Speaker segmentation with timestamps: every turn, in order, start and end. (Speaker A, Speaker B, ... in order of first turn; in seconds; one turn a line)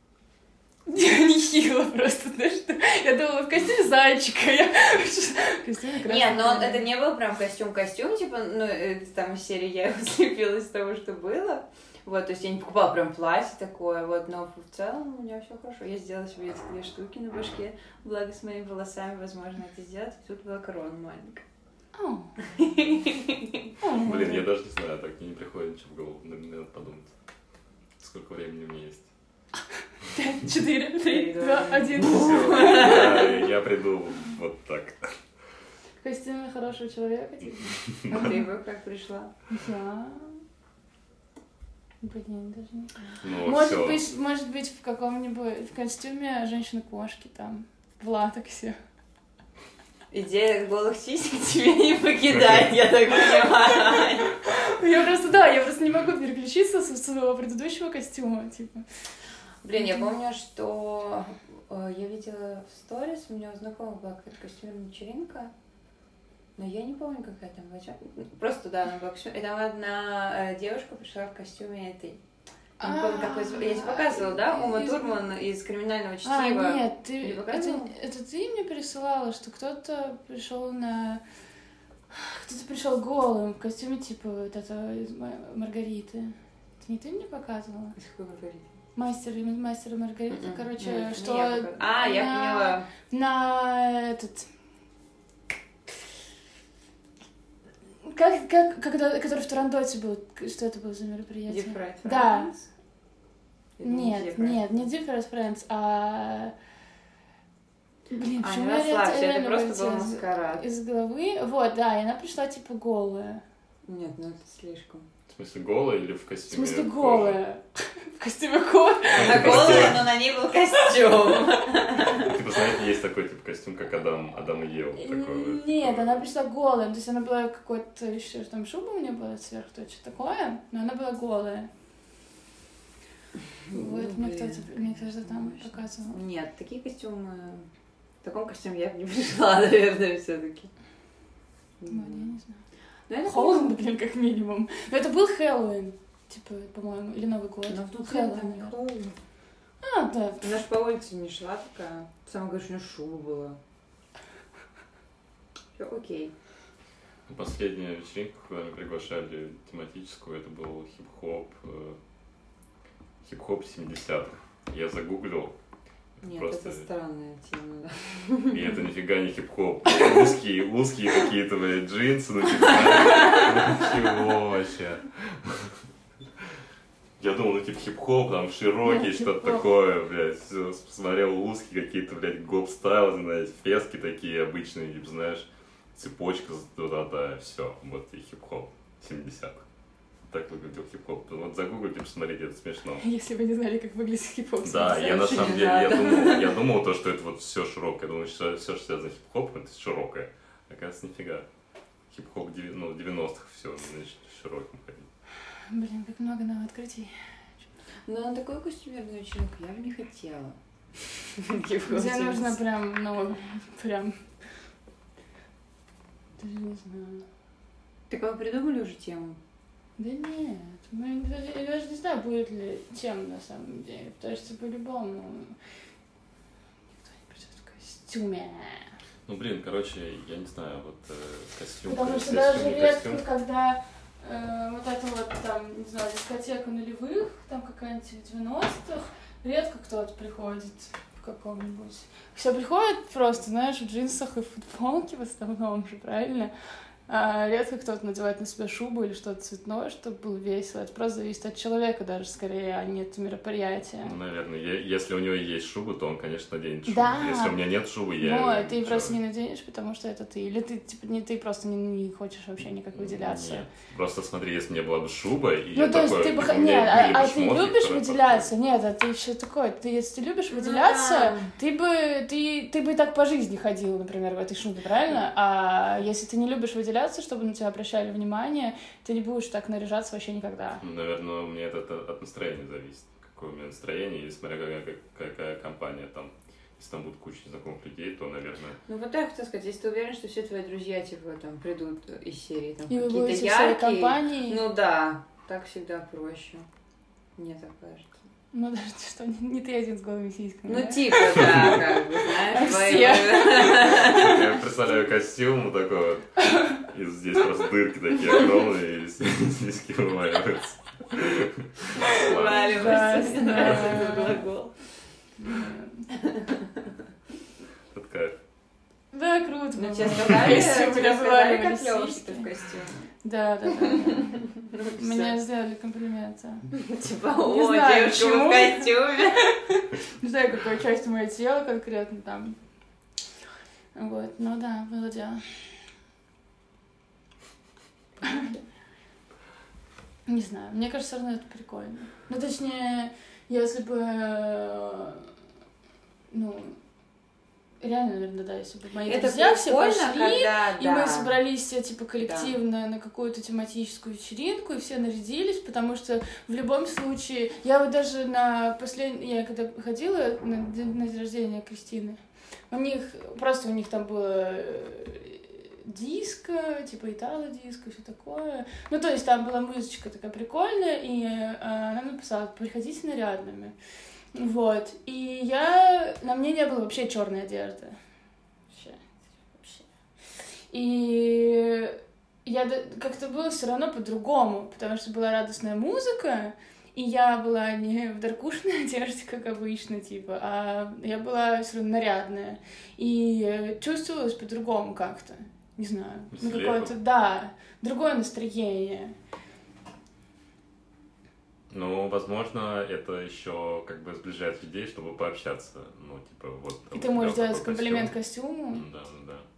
Speaker A: 0.9-6.8
Speaker B: 6.0-21.4
Speaker A: 21.9-22.3
Speaker B: 22.4-23.6
Speaker A: 23.8-24.5
Speaker C: 23.9-27.1
Speaker C: 28.0-29.1
Speaker A: 30.1-33.4
Speaker B: 31.0-33.5
Speaker C: 32.0-35.1
Speaker A: 36.0-38.4
Speaker C: 37.9-38.2
Speaker B: 38.1-39.3
Speaker A: 39.5-40.4
Speaker A: 42.0-48.8
Speaker C: 43.2-44.0
Speaker B: 50.1-54.3
Speaker A: 54.4-58.8
Speaker B: 59.6-65.5
Speaker B: 66.6-72.2
Speaker A: 72.8-75.1
Speaker B: 72.8-77.9
Speaker A: 76.2-81.2
Speaker A: 82.1-88.0
Speaker B: 88.0-88.7
Speaker A: 89.0-94.5
Speaker B: 90.3-92.9
Speaker A: 98.0-102.5
Speaker B: 101.5-102.7
Speaker B: 103.8-104.9
Speaker A: 103.8-106.5
Speaker A: 108.1-113.4
Speaker B: 108.4-110.6
Speaker B: 113.9-115.0
Speaker C: 115.3-117.4
Speaker A: 116.5-117.6
Speaker A: 118.2-120.1
Speaker B: 119.1-122.3
Speaker C: 119.2-120.1
Speaker A: 120.9-121.1
Speaker C: 122.0-126.3
Speaker A: 125.0-131.7
Speaker B: 133.7-137.7
Speaker A: 133.7-136.2
Speaker B: 138.2-140.7
Speaker B: 141.8-142.3
Speaker A: 141.9-142.6
Speaker B: 143.1-143.8
Speaker A: 143.2-148.8
Speaker B: 147.7-149.2
Speaker A: 149.8-150.5
Speaker B: 150.4-153.6
Speaker B: 155.8-156.3
Speaker C: 157.3-162.0
Speaker C: 163.2-165.6
Speaker C: 166.2-166.9
Speaker B: 166.2-168.7
Speaker C: 168.5-175.8
Speaker A: 169.9-170.2
Speaker B: 172.7-173.8
Speaker C: 177.2-189.6
Speaker A: 178.8-179.7
Speaker C: 190.3-193.1
Speaker A: 193.0-196.6
Speaker C: 194.6-201.5
Speaker C: 202.1-205.1
Speaker A: 205.7-207.1
Speaker B: 208.1-210.6
Speaker B: 211.4-212.6
Speaker A: 211.9-214.2
Speaker A: 216.4-217.2
Speaker B: 218.1-219.4
Speaker A: 220.0-225.6
Speaker A: 227.0-228.9
Speaker C: 229.3-233.2
Speaker A: 231.8-246.5
Speaker A: 247.1-254.1
Speaker C: 254.0-259.2
Speaker A: 256.9-257.6
Speaker A: 258.2-263.7
Speaker C: 262.9-268.5
Speaker A: 265.8-280.8
Speaker B: 270.5-271.5
Speaker C: 280.8-288.8
Speaker B: 288.9-296.7
Speaker A: 292.9-294.6
Speaker B: 297.4-298.2
Speaker A: 298.5-304.4
Speaker B: 300.7-304.6
Speaker C: 303.9-313.2
Speaker B: 312.0-314.7
Speaker A: 312.4-314.5
Speaker A: 315.4-316.1
Speaker B: 316.3-316.6
Speaker C: 317.9-318.4
Speaker A: 319.1-322.5
Speaker B: 319.8-323.1
Speaker A: 323.2-326.7
Speaker B: 324.0-325.4
Speaker B: 326.7-329.4
Speaker A: 327.4-332.6
Speaker A: 333.9-335.7
Speaker B: 338.2-338.6
Speaker A: 340.3-345.3
Speaker A: 346.3-346.8
Speaker A: 347.8-362.2
Speaker B: 349.1-351.4
Speaker B: 352.2-352.6
Speaker A: 362.7-373.8
Speaker A: 374.4-378.0
Speaker A: 378.7-379.9
Speaker A: 380.7-399.1
Speaker C: 396.3-396.9
Speaker C: 401.7-408.1
Speaker A: 406.9-408.9
Speaker C: 408.7-409.4